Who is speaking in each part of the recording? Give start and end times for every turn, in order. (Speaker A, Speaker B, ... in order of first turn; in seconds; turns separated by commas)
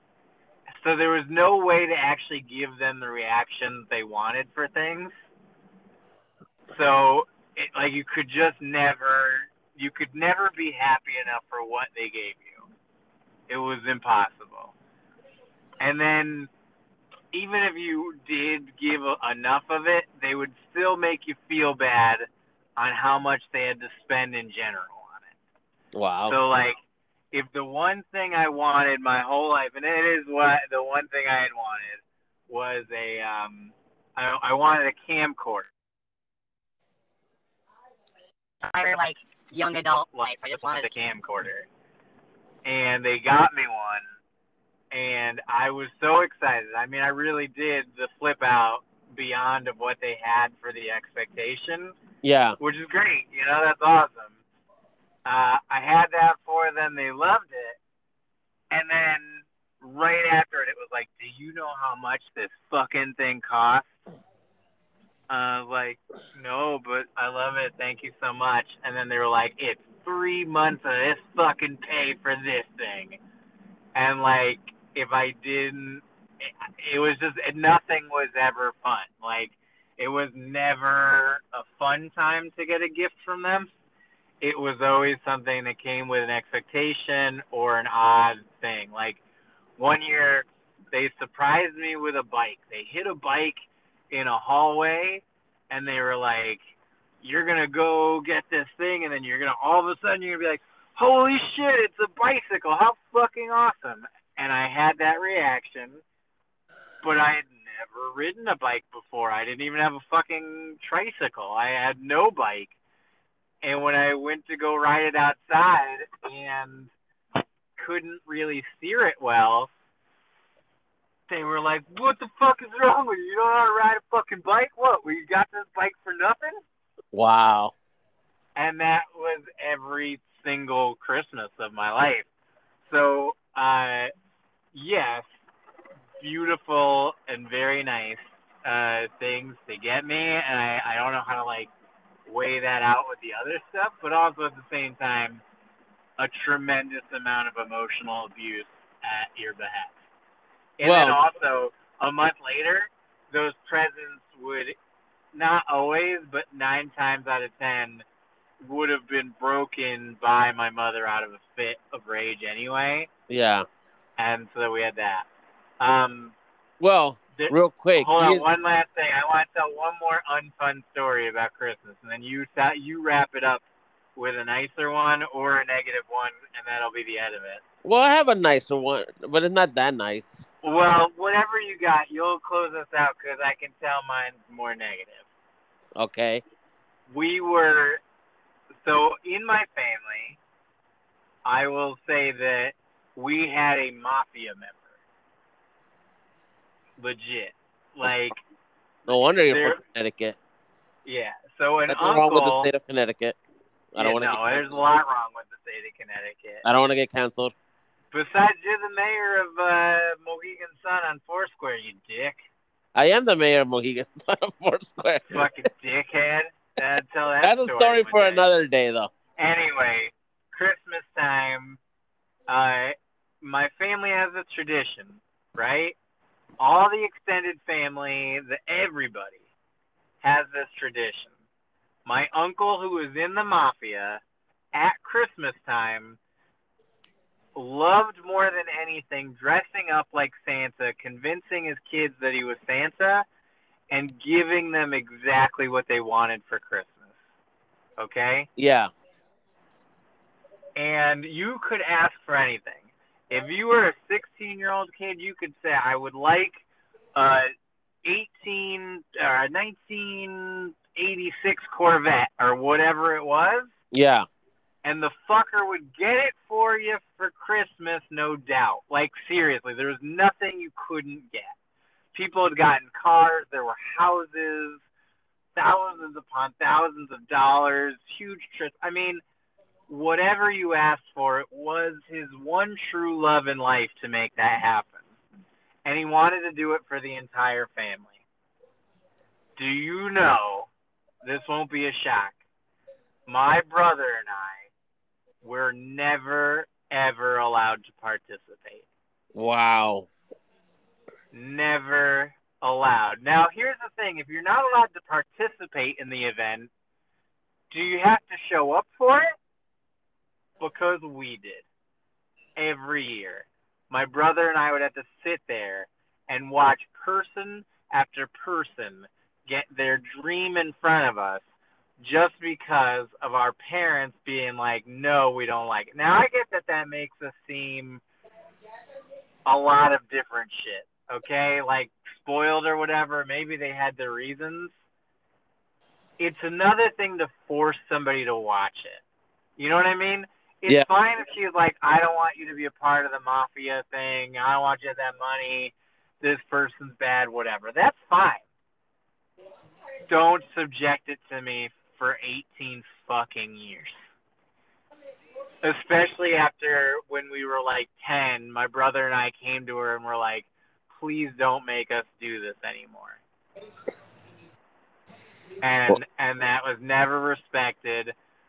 Speaker A: 0.8-5.1, Speaker A: 6.7-12.6, Speaker A: 13.5-14.7, Speaker A: 15.8-16.5, Speaker A: 17.3-22.2, Speaker A: 22.8-25.3, Speaker B: 25.9-26.4, Speaker A: 26.3-26.8, Speaker A: 27.3-35.7, Speaker C: 38.7-40.9, Speaker A: 40.1-41.7, Speaker A: 42.6-44.0, Speaker A: 44.9-51.9, Speaker B: 52.2-52.6, Speaker A: 52.6-54.4, Speaker A: 55.2-57.8, Speaker A: 58.7-63.9, Speaker A: 65.3-73.2, Speaker A: 73.9-83.7, Speaker A: 84.4-89.2, Speaker A: 89.8-96.6, Speaker A: 97.2-106.0, Speaker A: 107.0-112.7, Speaker A: 113.6-116.9, Speaker A: 117.8-119.7, Speaker A: 121.3-126.6, Speaker B: 127.1-127.7, Speaker A: 128.6-132.3, Speaker A: 132.8-134.1, Speaker A: 134.7-135.3, Speaker A: 136.2-141.7, Speaker A: 142.2-145.4, Speaker A: 146.2-149.9, Speaker A: 150.8-154.8, Speaker B: 150.8-151.2, Speaker A: 155.3-158.0, Speaker A: 158.6-163.1, Speaker B: 163.3-163.7, Speaker A: 164.2-165.3, Speaker A: 165.8-166.3, Speaker B: 166.8-168.4, Speaker A: 167.4-173.6, Speaker A: 174.2-177.6, Speaker B: 177.8-180.5, Speaker A: 180.6-185.2, Speaker B: 185.9-186.4, Speaker A: 187.1-188.0, Speaker A: 188.8-190.4, Speaker A: 191.4-194.8, Speaker A: 197.0-198.3, Speaker B: 199.1-200.4, Speaker A: 199.1-199.8, Speaker A: 201.1-202.7, Speaker B: 201.9-203.3, Speaker B: 203.9-204.8, Speaker A: 204.0-206.6, Speaker B: 206.6-207.5, Speaker A: 208.1-212.4, Speaker B: 212.9-215.4, Speaker A: 215.3-218.4, Speaker B: 217.4-219.1, Speaker A: 219.4-221.8, Speaker A: 222.5-225.9, Speaker A: 226.6-229.4, Speaker A: 230.2-231.3, Speaker A: 232.1-234.2, Speaker A: 234.7-236.2, Speaker A: 237.6-243.2, Speaker A: 243.9-247.2, Speaker A: 248.0-248.5, Speaker B: 248.6-248.9, Speaker A: 250.8-256.6, Speaker A: 257.1-257.5, Speaker A: 258.0-263.7, Speaker B: 263.9-264.2, Speaker A: 264.8-271.5, Speaker A: 272.1-274.8, Speaker A: 275.6-279.2, Speaker A: 279.9-285.0, Speaker A: 285.9-288.2, Speaker A: 289.6-290.7, Speaker A: 291.2-292.4, Speaker A: 293.3-294.7, Speaker A: 295.4-298.8, Speaker B: 299.3-300.1, Speaker A: 301.3-306.7, Speaker A: 307.7-309.3, Speaker A: 310.6-311.6, Speaker A: 312.6-321.4, Speaker A: 322.0-328.0, Speaker A: 329.4-334.7, Speaker A: 336.2-339.0, Speaker A: 339.6-348.4, Speaker A: 350.1-354.0, Speaker A: 355.6-363.2, Speaker A: 365.6-368.1